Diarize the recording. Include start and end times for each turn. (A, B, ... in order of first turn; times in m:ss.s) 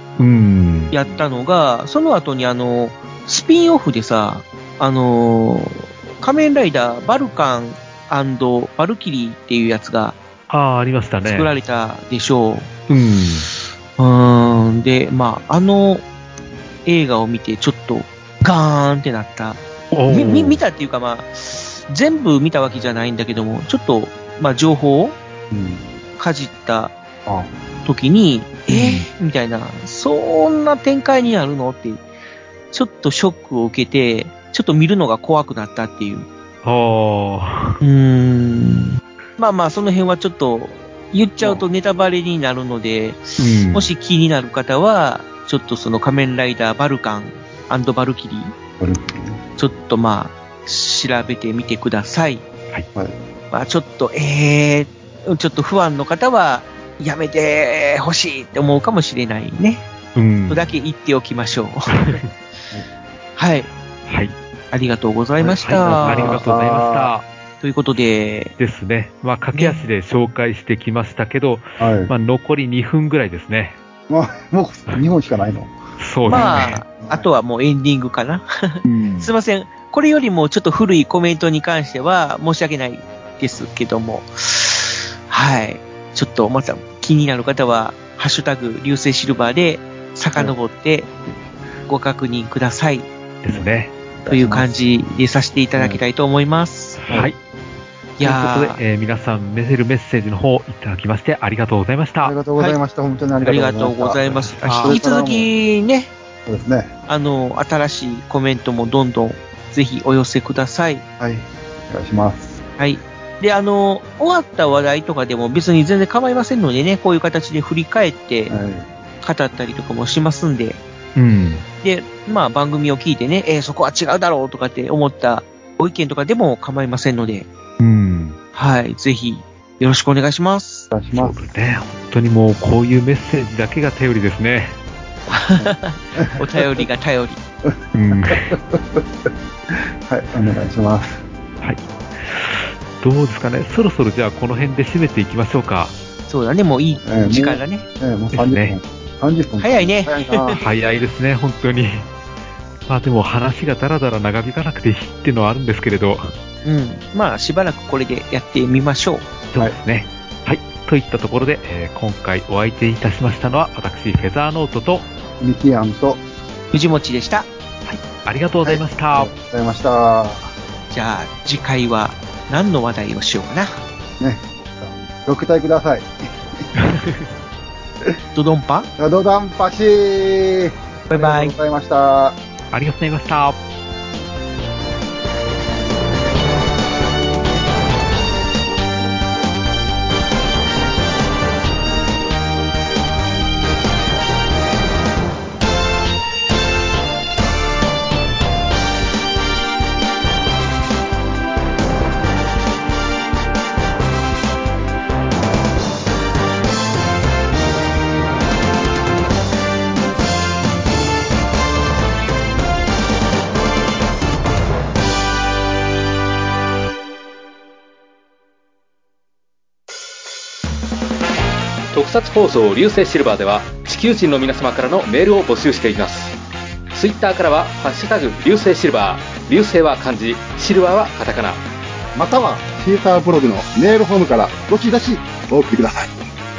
0:00.2-0:01.2 A
0:00.9-0:10.2 B
0:10.5-0:11.5 A
0:11.2-0:12.7 B
0:12.9-0:13.5 A
0:14.0-0:16.0 B
0:16.8-0:25.2 B
0:19.9-0:20.6 A
0:25.5-0:25.9 C
0:26.2-0:26.9 B
0:27.2-0:27.5 C
0:27.8-0:32.0 B
0:28.7-0:29.1 A
0:32.7-0:36.3 B
0:36.6-0:37.8 A
0:37.8-0:48.5 B
0:43.4-0:43.9 A
0:48.8-0:49.4 C
0:49.6-0:52.4 B
0:53.5-0:59.8 B
1:00.1-1:00.7 A
1:00.5-1:02.2 B
1:01.9-1:02.2 A
1:03.4-1:03.7 B
1:04.1-1:04.3 A
1:04.7-1:06.4 B
1:05.4-1:07.1 C
1:05.6-1:07.2 A
1:07.6-1:08.5 B
1:08.6-1:13.8 A
1:09.5-1:09.9 B
1:11.8-1:12.1 C
1:14.1-1:17.3 C
1:16.0-1:16.8 A
1:16.3-1:31.1 B
1:18.8-1:19.3 A
1:31.9-1:33.1 B
1:33.4-1:33.9 A
1:33.5-1:34.7 C
1:34.3-1:37.0 B
1:35.7-1:36.0 C
1:37.0-1:37.4 A
1:38.2-1:38.8 B
1:38.2-1:42.4 A
1:42.2-1:45.5 C
1:43.4-1:46.1 B
1:44.6-1:45.0 A
1:46.5-1:46.9 C
1:47.1-1:51.0 B
1:51.2-1:52.6 C
1:52.8-1:58.5 B
1:58.5-1:58.9 C
1:59.2-2:00.8 B
2:01.2-2:01.6 A
2:01.8-2:07.5 B
2:07.8-2:08.4 A
2:08.5-2:10.9 B
2:10.9-2:11.4 C
2:11.1-2:14.8 A
2:15.3-2:17.4 B
2:15.6-2:16.8 C
2:17.6-2:21.2 C
2:17.9-2:18.5 A
2:21.6-2:25.9 A
2:26.3-2:27.8 B
2:27.0-2:30.6 C
2:28.3-2:28.7 A
2:29.6-2:30.6 B
2:30.6-2:32.1 A
2:32.9-2:36.3 A
2:36.6-2:39.2 B
2:39.5-2:45.0 A
2:45.4-2:46.2 C
2:46.7-2:47.5 B
2:47.8-2:49.3 A
2:48.6-2:50.5 C
2:50.9-2:53.8 B
2:54.2-2:56.7 C
2:56.8-2:57.2 A
2:58.3-2:58.9 B
2:59.0-3:02.4 C
3:01.1-3:01.5 B
3:02.7-3:03.6 A
3:41.9-3:46.4 D
3:46.9-3:51.6 D
3:52.1-3:56.3 C